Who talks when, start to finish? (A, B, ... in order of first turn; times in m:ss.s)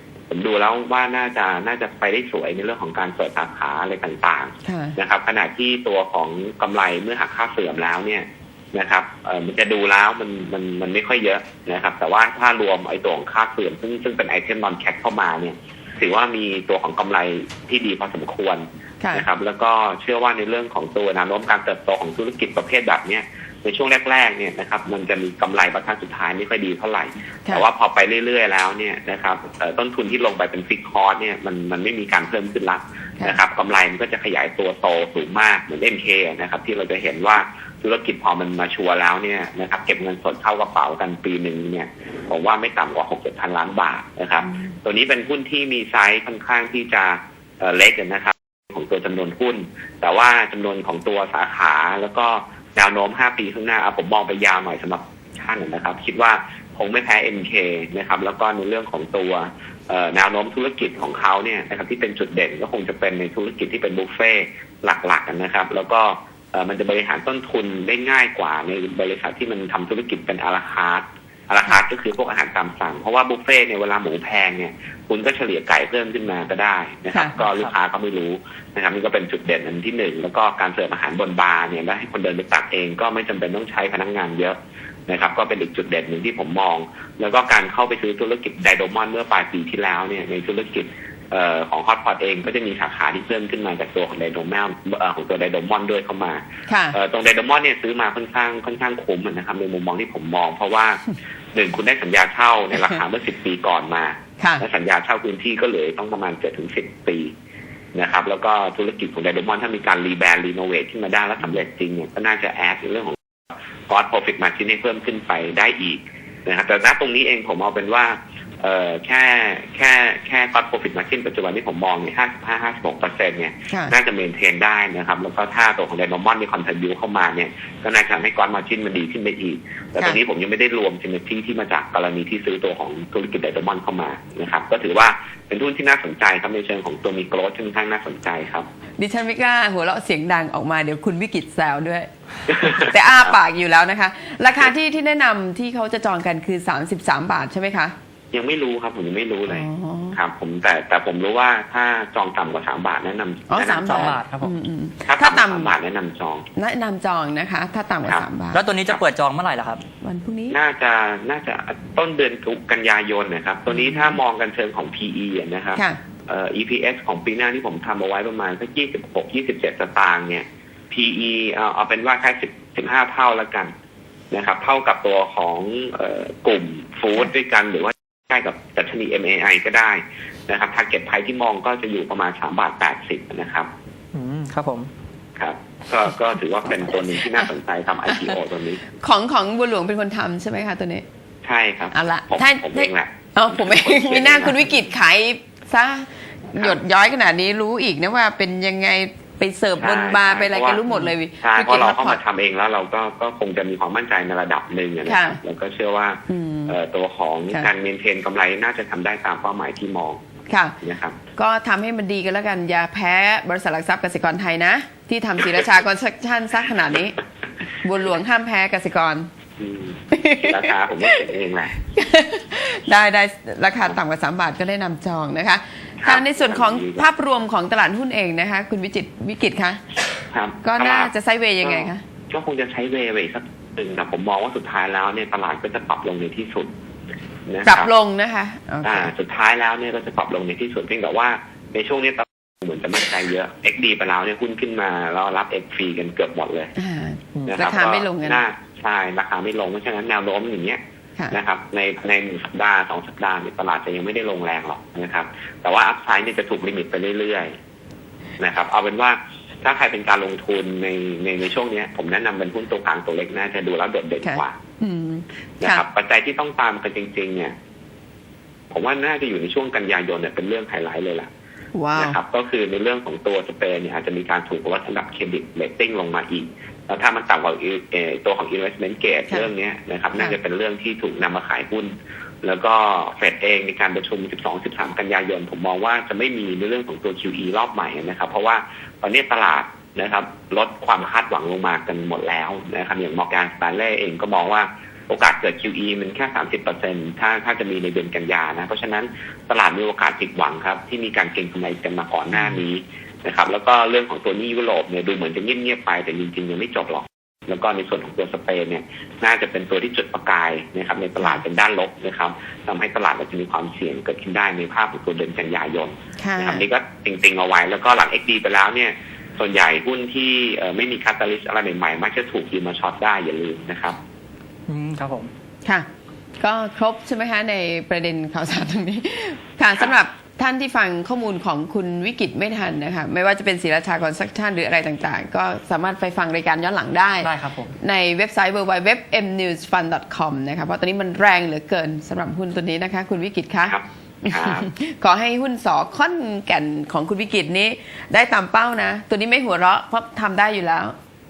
0:00.3-1:24.6 A
0:04.6-0:05.0 B
1:17.1-1:17.4 B
1:17.4-1:17.7 C
1:25.1-1:41.0 A
1:36.7-1:37.0 B
1:41.5-1:47.3 A
1:44.4-1:44.6 B
1:47.9-1:53.2 A
1:53.9-2:18.7 A
2:19.0-2:22.1 B
2:22.5-2:23.3 A
2:22.6-2:27.9 B
2:28.3-2:34.2 A
2:29.5-2:30.2 B
2:33.5-2:35.7 B
2:33.8-2:34.5 C
2:35.0-2:36.4 A
2:36.6-2:38.6 B
2:38.5-2:39.8 C
2:40.0-2:40.6 B
2:40.5-2:53.7 A
2:43.7-2:44.1 B
2:54.3-3:03.7 A
3:04.1-3:04.9 C
3:05.4-3:08.8 A
3:09.0-3:11.0 B
3:11.4-3:14.9 A
3:11.9-3:22.2 B
3:19.8-3:30.2 A
3:25.0-3:25.4 B
3:26.3-3:26.8 B
3:30.5-3:30.8 B
3:30.8-3:31.2 A
3:31.4-3:37.2 B
3:37.8-3:39.3 B
3:39.6-3:41.7 A
3:40.1-3:41.3 B
3:41.9-3:49.9 B
3:46.0-3:47.1 A
3:50.3-3:51.1 A
3:50.6-3:52.0 B
3:51.6-3:56.7 A
3:57.5-3:57.9 A
3:57.6-3:59.1 B
3:58.8-4:06.7 A
4:06.8-4:08.4 B
4:07.5-4:10.8 A
4:11.3-4:17.5 A
4:18.4-4:24.6 A
4:24.2-4:25.8 B
4:25.6-4:27.5 A
4:28.7-4:31.3 A
4:31.7-4:32.2 B
4:32.0-5:24.0 A
5:16.2-5:16.6 B
5:24.7-5:25.3 C
5:26.4-5:51.0 B
5:37.2-5:37.7 C
5:43.7-5:44.7 A